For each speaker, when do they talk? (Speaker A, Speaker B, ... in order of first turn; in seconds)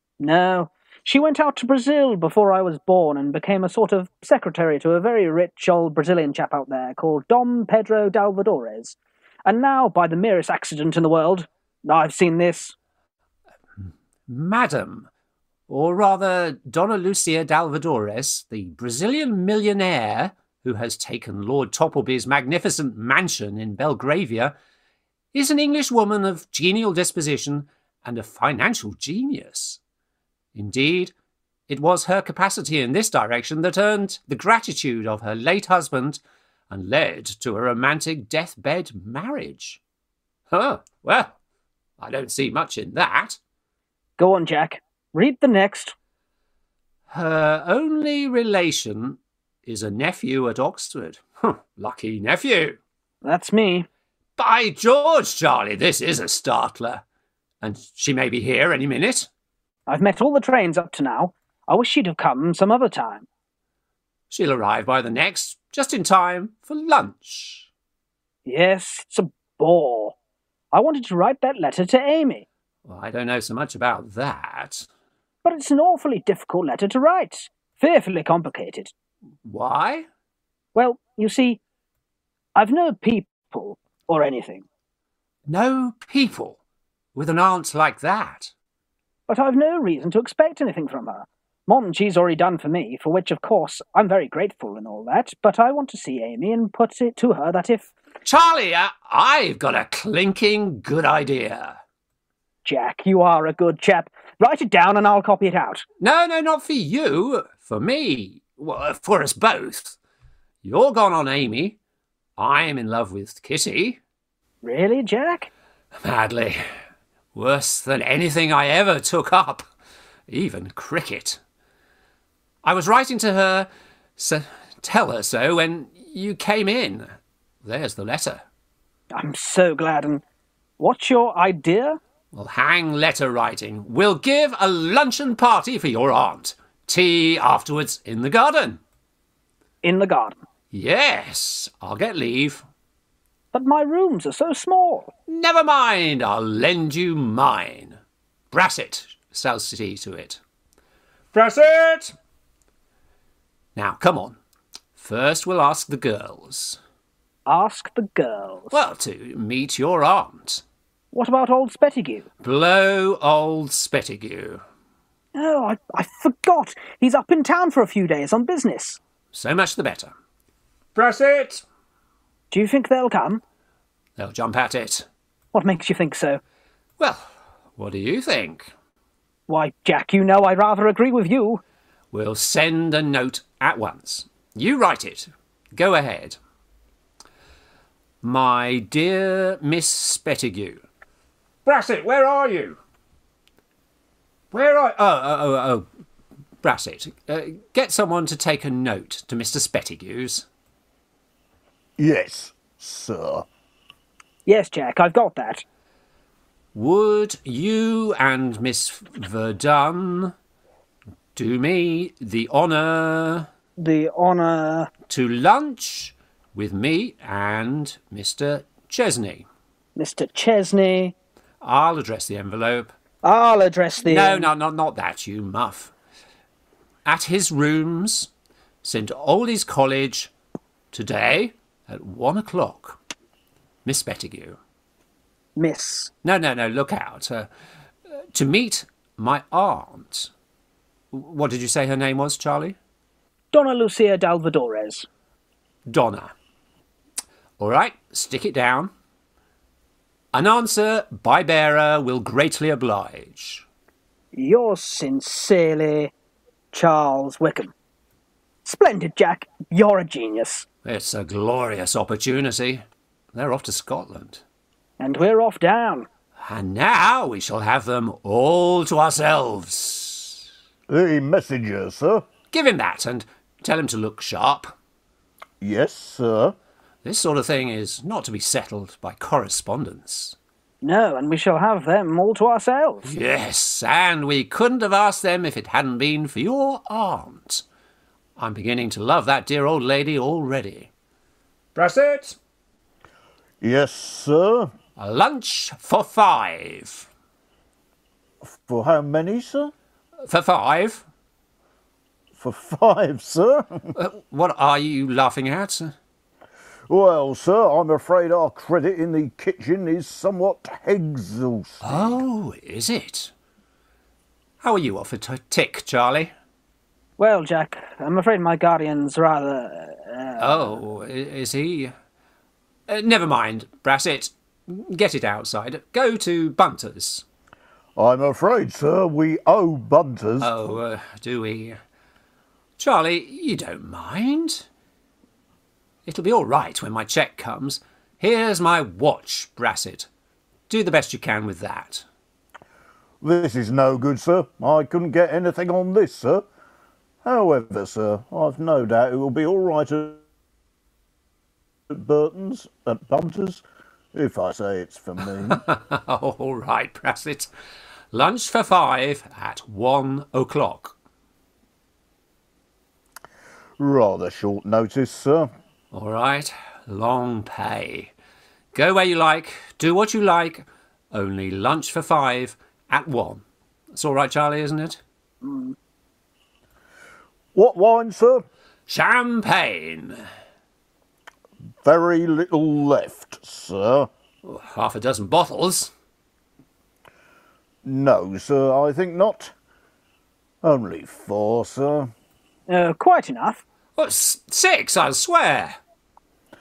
Speaker A: 0.2-12.8, 44.2-45.9, 53.2-53.9, 59.9-63.3, 68.5-70.2, 70.7-72.4, 75.4-78.9, 80.8-81.6, 82.5-84.7, 89.3-97.9, 102.7-105.8, 114.6-115.5, 129.1-130.2, 130.8-132.0, 139.8-140.4, 143.5-145.1, 157.4-158.7, 161.1-162.3, 165.3-169.0, 172.5-173.4, 175.5-176.4, 179.5-181.6, 204.4-205.6, 213.8-214.9, 219.9-221.2, 223.2-224.5, 235.6-236.1, 243.5-245.1, 254.3-256.1, 256.7-257.7, 258.6-260.7, 265.0-266.1, 280.8-283.1, 317.2-320.7, 375.4-375.8, 392.7-393.6
Speaker B: 13.8-15.1, 15.7-24.6, 25.3-29.8, 30.6-31.1, 31.7-39.8, 40.5-41.4, 42.0-43.4, 47.1-52.8, 54.4-57.0, 57.6-59.3, 64.3-67.7, 72.8-74.9, 79.4-80.1, 85.5-86.6, 87.1-88.5, 98.2-101.8, 106.0-110.0, 110.6-111.8, 112.4-114.0, 116.0-116.6, 117.3-119.7, 120.3-121.4, 122.6-127.1, 127.6-128.4, 132.3-138.8, 140.7-142.6, 145.3-148.0, 148.5-150.4, 151.3-152.1, 153.8-154.4, 155.0-156.8, 158.7-160.6, 162.4-164.6, 169.3-170.1, 170.9-171.6, 174.2-175.1, 177.0-178.7, 182.1-186.4, 188.2-190.8, 191.7-192.8, 194.5-195.9, 196.6-200.4, 206.7-210.3, 211.3-213.5, 215.1-219.5, 221.6-222.9, 224.1-225.9, 227.1-228.3, 228.8-230.3, 230.9-233.0, 233.8-234.6, 236.2-237.5, 238.3-240.3, 241.1-242.8, 245.9-246.3, 247.6-248.9, 250.3-253.7, 260.8-264.4, 266.4-270.4, 272.5-274.7, 277.1-280.4, 283.1-287.6, 288.4-290.9, 291.8-292.4, 295.0-297.1, 300.3-301.0, 303.9-305.9, 311.8-313.3, 314.6-316.3, 320.4-321.9, 322.9-327.2, 330.4-331.8, 332.8-334.7, 336.1-340.1, 340.7-342.1, 355.5-357.5, 358.1-360.9, 365.9-368.1, 368.7-373.4, 373.9-375.0, 378.9-380.2, 384.4-385.9, 394.0-395.8
Speaker C: 202.0-203.4, 270.9-272.3, 275.6-276.6, 293.6-294.7, 298.4-299.7, 302.3-303.9, 306.9-312.1, 327.9-330.5, 343.2-346.4, 347.2-350.2, 351.9-353.6, 354.1-355.6, 363.8-365.5, 377.5-378.4, 381.8-384.1, 387.8-389.5, 390.6-392.1